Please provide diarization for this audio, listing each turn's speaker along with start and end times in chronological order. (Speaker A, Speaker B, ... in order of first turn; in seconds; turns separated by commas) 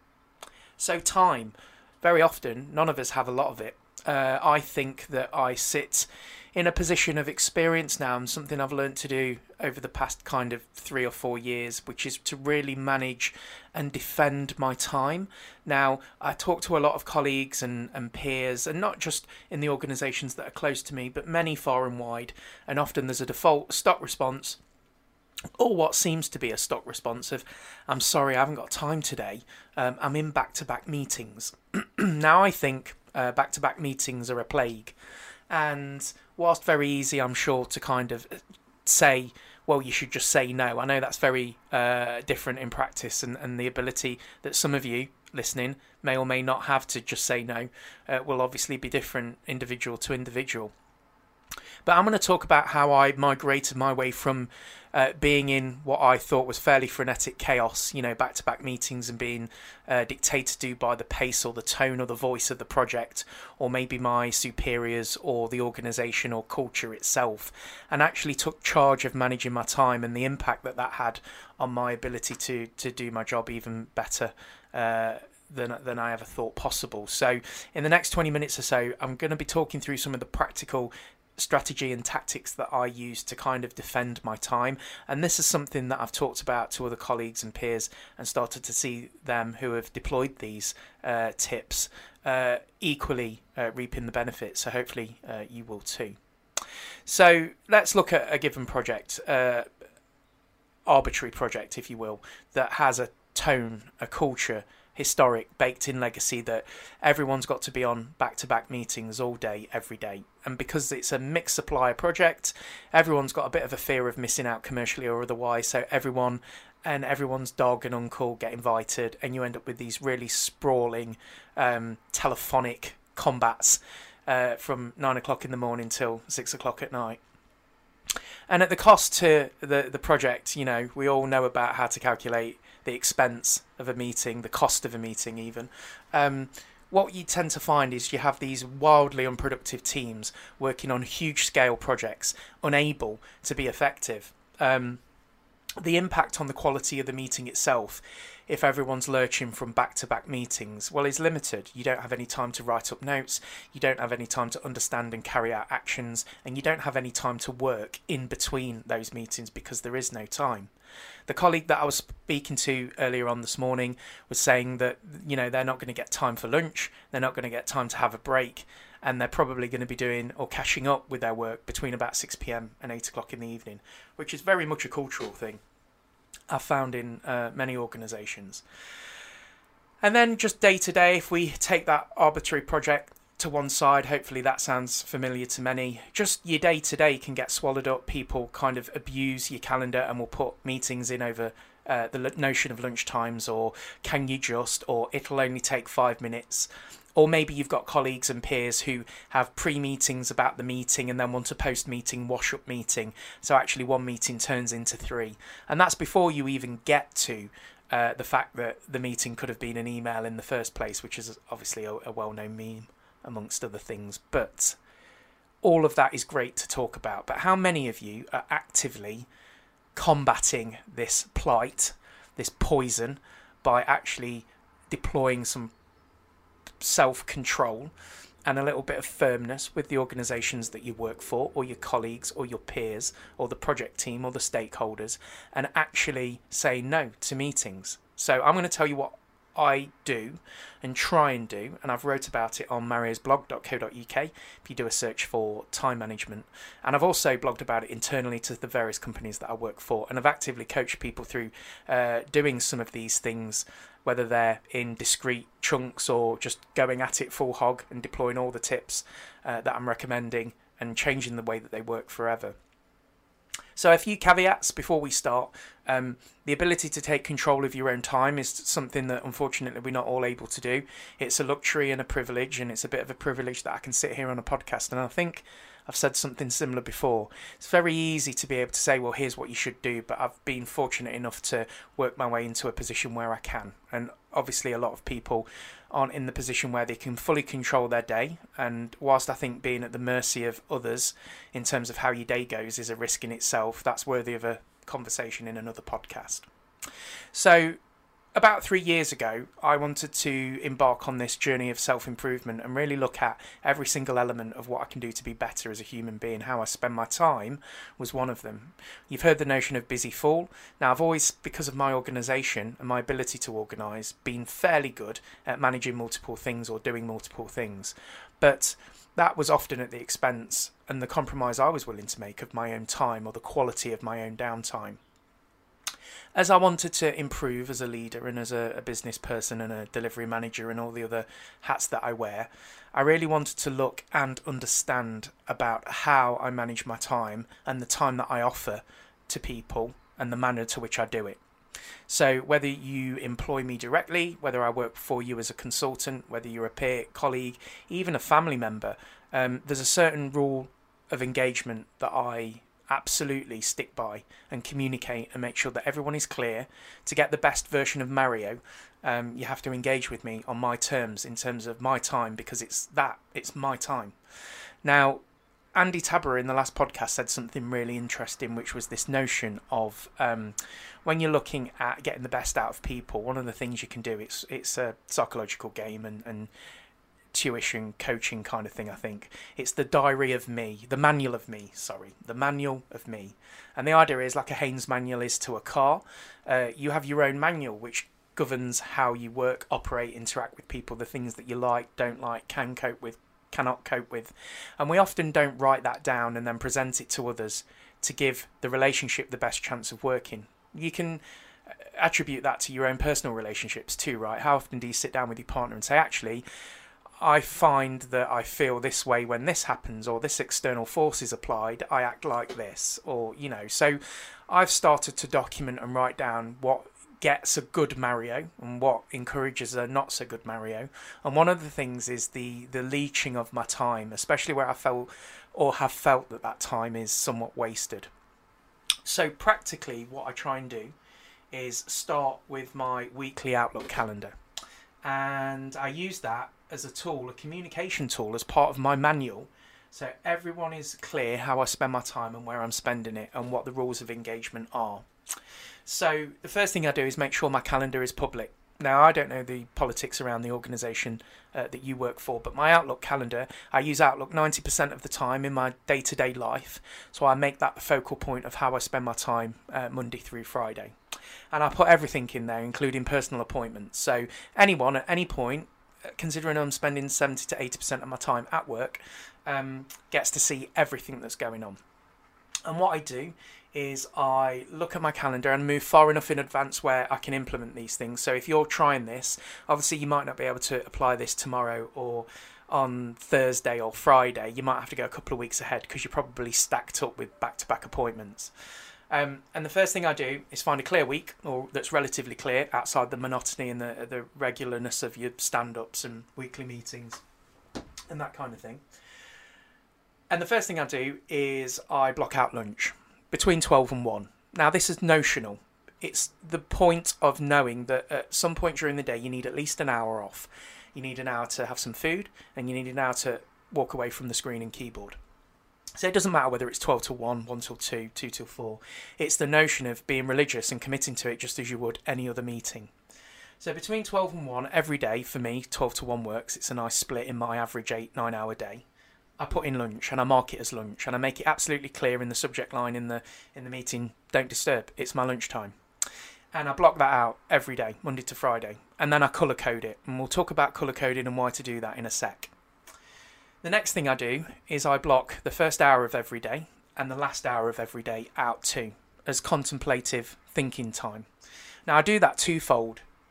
Speaker A: 0.8-24.6, Speaker A: 25.6-35.0, Speaker A: 35.5-50.7, Speaker A: 51.9-96.2, Speaker A: 97.1-99.7, Speaker A: 100.9-127.2, Speaker A: 128.5-145.0, Speaker A: 145.8-160.7, Speaker A: 161.3-175.6, Speaker A: 176.5-178.6, Speaker A: 180.0-214.8, Speaker A: 215.6-219.3, Speaker A: 219.9-225.7, Speaker A: 226.8-227.9, Speaker A: 228.4-262.6, Speaker A: 263.8-296.5, Speaker A: 297.3-297.8, Speaker A: 298.4-325.0, Speaker A: 326.4-341.4, Speaker A: 342.1-364.1, Speaker A: 364.8-365.2, Speaker A: 365.8-376.5, Speaker A: 377.3-406.4, Speaker A: 407.2-428.1, Speaker A: 429.1-430.9, Speaker A: 431.5-434.4, Speaker A: 435.0-445.1, Speaker A: 445.9-460.9, Speaker A: 461.5-471.8, Speaker A: 472.7-488.5, Speaker A: 489.1-497.2, Speaker A: 498.1-498.8, Speaker A: 500.3-515.2, Speaker A: 516.0-522.9, Speaker A: 523.6-528.8, Speaker A: 529.4-535.8, Speaker A: 536.5-542.5, Speaker A: 543.6-551.3, Speaker A: 551.9-553.0